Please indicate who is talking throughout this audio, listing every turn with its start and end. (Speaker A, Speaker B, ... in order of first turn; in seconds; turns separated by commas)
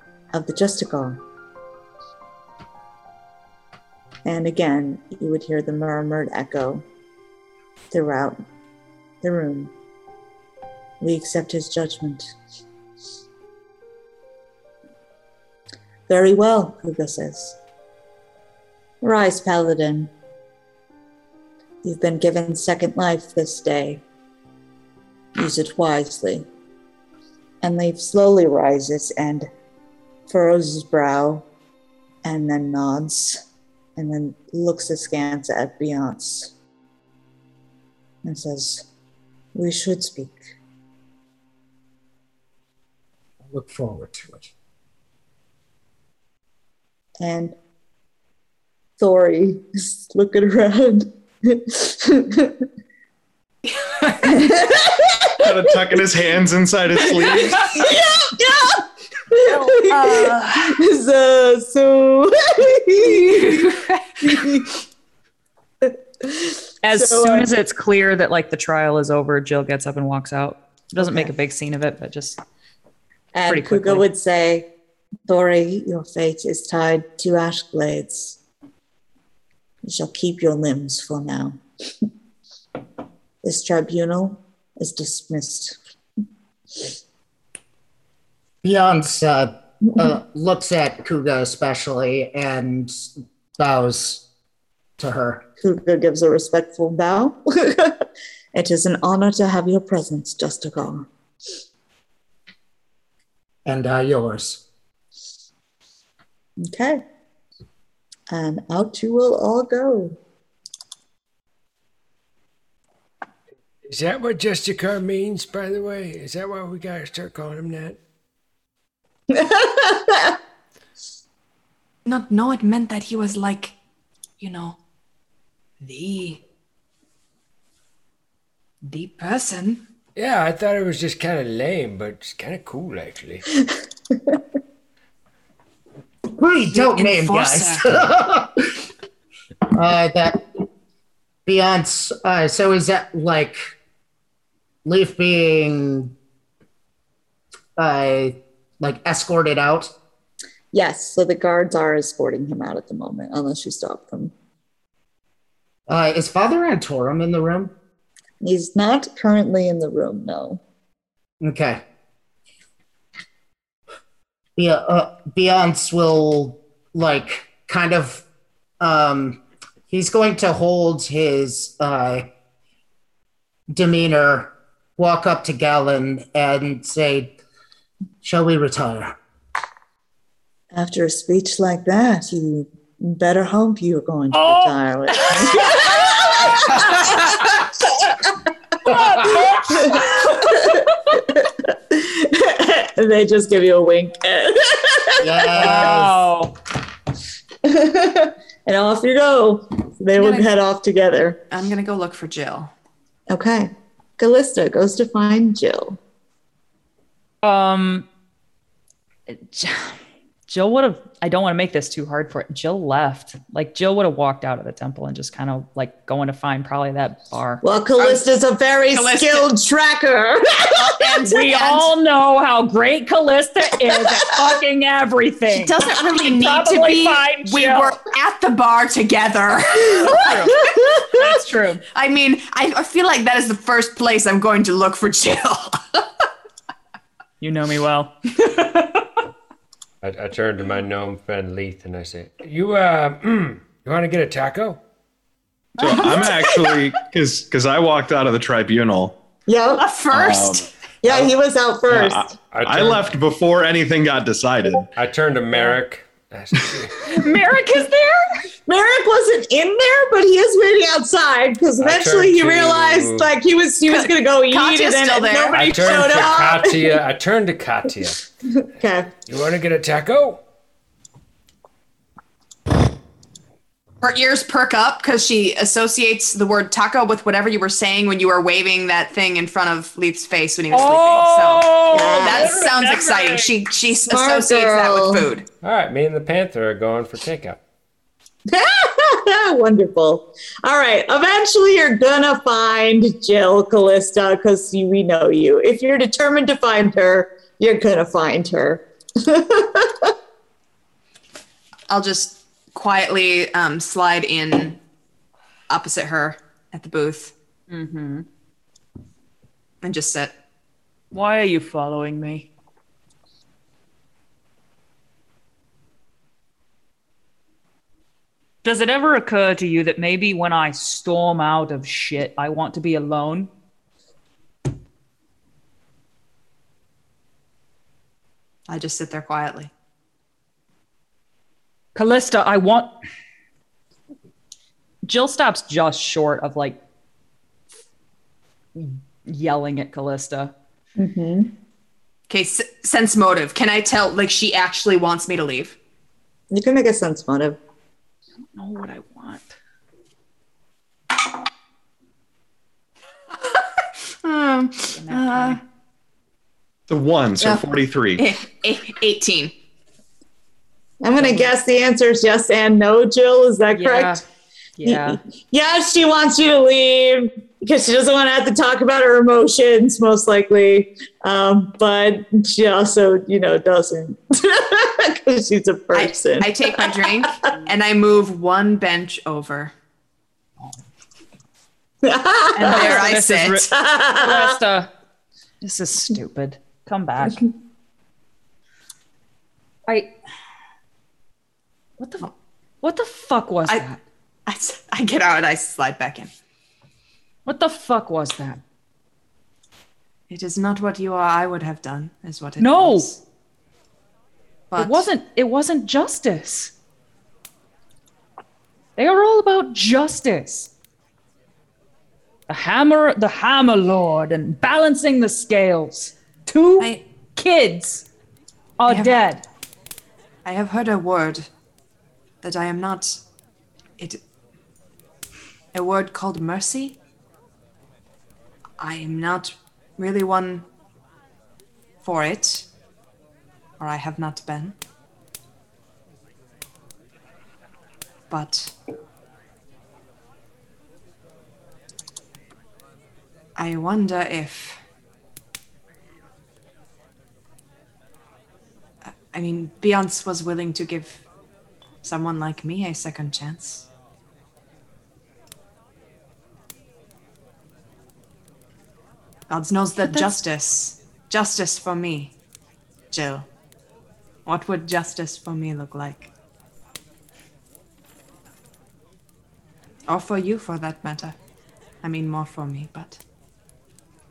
Speaker A: 0.3-1.2, Speaker A: 4.2-6.8, Speaker A: 7.9-8.4, Speaker A: 9.2-9.7, Speaker A: 11.0-12.3, Speaker A: 16.1-17.6, Speaker A: 19.0-20.1, Speaker A: 21.8-24.0, Speaker A: 25.4-26.5, Speaker A: 27.6-29.5, Speaker A: 30.3-31.4, Speaker A: 32.2-33.4, Speaker A: 34.0-36.5, Speaker A: 38.2-38.9, Speaker A: 39.5-40.4, Speaker B: 43.4-44.5, Speaker A: 47.2-47.6, Speaker A: 49.0-52.6, Speaker A: 54.2-55.6, Speaker C: 55.4-57.7, Speaker A: 57.4-64.8, Speaker D: 59.6-60.4, Speaker E: 59.7-60.4, Speaker E: 63.1-63.9, Speaker A: 65.8-67.5, Speaker D: 66.8-72.4, Speaker A: 71.0-71.3, Speaker A: 73.3-74.7, Speaker D: 73.5-74.1, Speaker A: 75.3-78.4, Speaker A: 79.8-82.0, Speaker A: 83.4-85.8, Speaker B: 88.6-93.0, Speaker B: 93.6-94.2, Speaker B: 95.0-95.4, Speaker A: 95.6-98.0, Speaker A: 98.5-101.1, Speaker B: 103.7-104.6, Speaker A: 106.6-107.0, Speaker A: 108.3-110.2, Speaker F: 113.8-118.0, Speaker A: 119.3-120.4, Speaker E: 122.0-123.8, Speaker E: 124.4-124.8, Speaker E: 125.8-126.4, Speaker E: 128.8-129.8, Speaker F: 130.2-133.4, Speaker A: 134.1-134.4, Speaker B: 136.3-138.8, Speaker E: 136.7-137.8, Speaker B: 139.7-140.4, Speaker B: 141.5-143.6, Speaker B: 144.8-146.1, Speaker B: 147.8-149.9, Speaker A: 150.7-154.3, Speaker B: 155.9-157.7, Speaker A: 158.4-160.6, Speaker B: 161.4-161.8, Speaker B: 164.6-168.2, Speaker B: 168.8-172.3, Speaker B: 173.7-177.3, Speaker B: 178.2-179.2, Speaker A: 180.7-188.3, Speaker D: 184.3-187.2, Speaker D: 188.9-190.7, Speaker A: 189.7-195.9, Speaker B: 195.2-196.3, Speaker D: 195.6-196.5, Speaker A: 197.6-201.4, Speaker E: 200.2-200.5, Speaker E: 201.5-202.7, Speaker A: 203.3-206.0, Speaker D: 207.4-208.1, Speaker D: 209.3-217.6, Speaker A: 217.6-221.2, Speaker E: 218.0-218.2, Speaker E: 218.9-219.5, Speaker E: 220.7-221.9, Speaker D: 221.3-228.0, Speaker E: 225.5-230.4, Speaker D: 229.9-231.8, Speaker E: 231.9-236.1, Speaker D: 237.4-239.1, Speaker F: 240.0-244.8, Speaker C: 245.8-249.2, Speaker A: 245.8-246.4, Speaker A: 249.5-250.0, Speaker E: 249.8-250.6, Speaker C: 250.1-251.3, Speaker A: 251.0-252.3, Speaker C: 251.9-254.9, Speaker F: 252.5-253.2, Speaker F: 255.0-257.1, Speaker D: 257.1-258.3, Speaker A: 258.7-267.0, Speaker F: 261.8-263.3, Speaker E: 263.9-266.3, Speaker F: 265.5-268.2, Speaker A: 268.5-269.1, Speaker F: 269.3-270.4, Speaker E: 274.0-285.5, Speaker D: 280.7-283.5, Speaker A: 281.9-282.7, Speaker A: 284.1-285.3, Speaker F: 285.6-287.6, Speaker A: 288.5-300.1, Speaker E: 301.9-304.8, Speaker E: 305.7-307.3, Speaker D: 307.7-308.3, Speaker E: 309.8-310.4, Speaker D: 311.1-312.5, Speaker D: 318.6-323.5, Speaker E: 328.7-329.7, Speaker D: 331.9-332.9, Speaker D: 335.0-336.8, Speaker D: 338.8-340.5, Speaker A: 341.0-341.5, Speaker E: 342.3-345.8, Speaker A: 346.5-347.6, Speaker D: 348.6-349.6, Speaker E: 354.3-355.6, Speaker D: 354.9-355.6, Speaker C: 356.9-358.2, Speaker E: 358.2-359.5, Speaker A: 361.0-364.2, Speaker D: 361.2-361.5, Speaker D: 363.7-364.2, Speaker D: 364.8-365.2, Speaker A: 364.9-377.3, Speaker E: 375.9-379.7, Speaker A: 382.0-383.1, Speaker D: 382.6-384.9, Speaker E: 382.6-383.7, Speaker A: 383.7-384.6, Speaker D: 385.6-387.5, Speaker D: 389.9-390.1, Speaker D: 392.0-392.3, Speaker D: 392.8-394.0, Speaker E: 394.5-396.3, Speaker D: 397.5-398.6, Speaker E: 400.3-403.2, Speaker D: 402.6-403.1, Speaker E: 404.7-405.1, Speaker D: 404.7-406.7, Speaker D: 409.0-410.7, Speaker D: 412.5-418.1, Speaker D: 418.8-419.4, Speaker E: 418.9-419.2, Speaker E: 420.4-421.5, Speaker E: 422.4-423.2, Speaker E: 425.7-427.0, Speaker E: 428.8-430.7, Speaker E: 432.0-432.7, Speaker E: 433.8-434.8, Speaker E: 438.3-438.7, Speaker E: 443.6-444.8, Speaker E: 449.3-451.2, Speaker E: 452.0-453.9, Speaker E: 459.5-462.3, Speaker D: 460.1-460.3, Speaker E: 463.1-463.5, Speaker E: 464.5-466.3, Speaker E: 470.1-471.4, Speaker E: 472.0-473.2